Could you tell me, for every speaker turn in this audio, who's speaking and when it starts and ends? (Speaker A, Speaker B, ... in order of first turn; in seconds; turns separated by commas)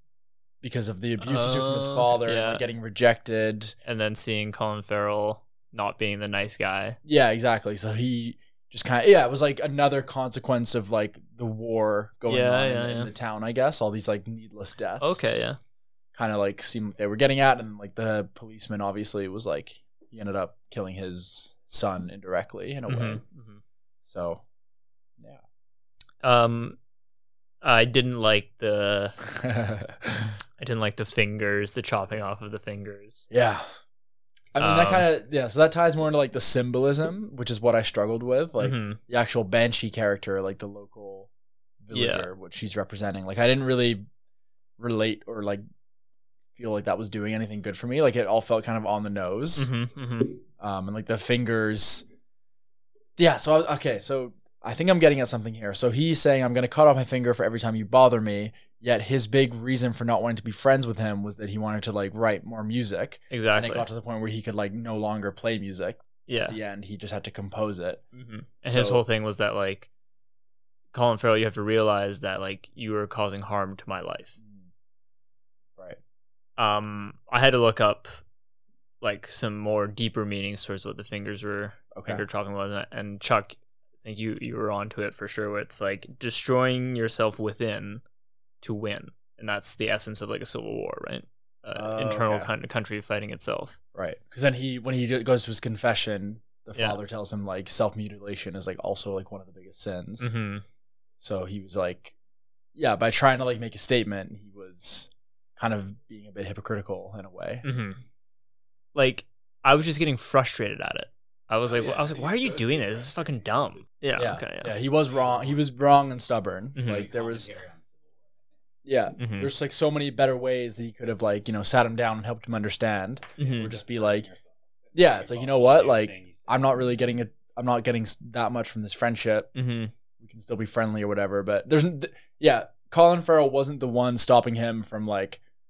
Speaker A: 0.6-3.8, Speaker B: 1.2-2.6, Speaker B: 3.9-7.0, Speaker A: 7.0-15.2, Speaker B: 12.3-13.1, Speaker B: 15.0-15.6, Speaker A: 16.1-23.2, Speaker B: 22.9-23.6, Speaker A: 24.0-24.4, Speaker B: 26.2-26.8, Speaker B: 27.6-29.2, Speaker A: 29.3-30.4, Speaker B: 30.6-33.3, Speaker A: 33.3-33.7, Speaker A: 34.5-41.3, Speaker B: 34.6-35.1, Speaker B: 38.6-39.0, Speaker A: 41.8-44.1, Speaker B: 41.9-42.3, Speaker A: 44.8-45.6, Speaker A: 46.5-49.7, Speaker B: 49.6-50.4, Speaker A: 50.6-52.0, Speaker A: 53.2-68.0, Speaker B: 63.3-63.9, Speaker B: 66.3-66.6, Speaker B: 68.2-69.9, Speaker A: 68.7-69.0, Speaker B: 70.9-74.4, Speaker A: 74.4-74.7, Speaker B: 76.6-78.2, Speaker B: 79.0-88.0, Speaker A: 81.9-82.2, Speaker B: 88.6-93.8, Speaker A: 91.8-92.5, Speaker A: 94.0-100.3, Speaker B: 100.2-100.6, Speaker A: 101.2-102.2, Speaker A: 102.8-107.6, Speaker B: 107.6-108.0, Speaker B: 109.0-114.8, Speaker C: 111.6-113.9, Speaker A: 114.2-117.5, Speaker C: 114.8-115.7, Speaker B: 116.8-117.1, Speaker C: 116.8-118.6, Speaker A: 118.8-124.3, Speaker B: 119.2-119.5, Speaker B: 123.4-123.7, Speaker C: 123.5-126.8, Speaker A: 124.9-129.5, Speaker B: 129.6-129.9, Speaker A: 130.2-135.4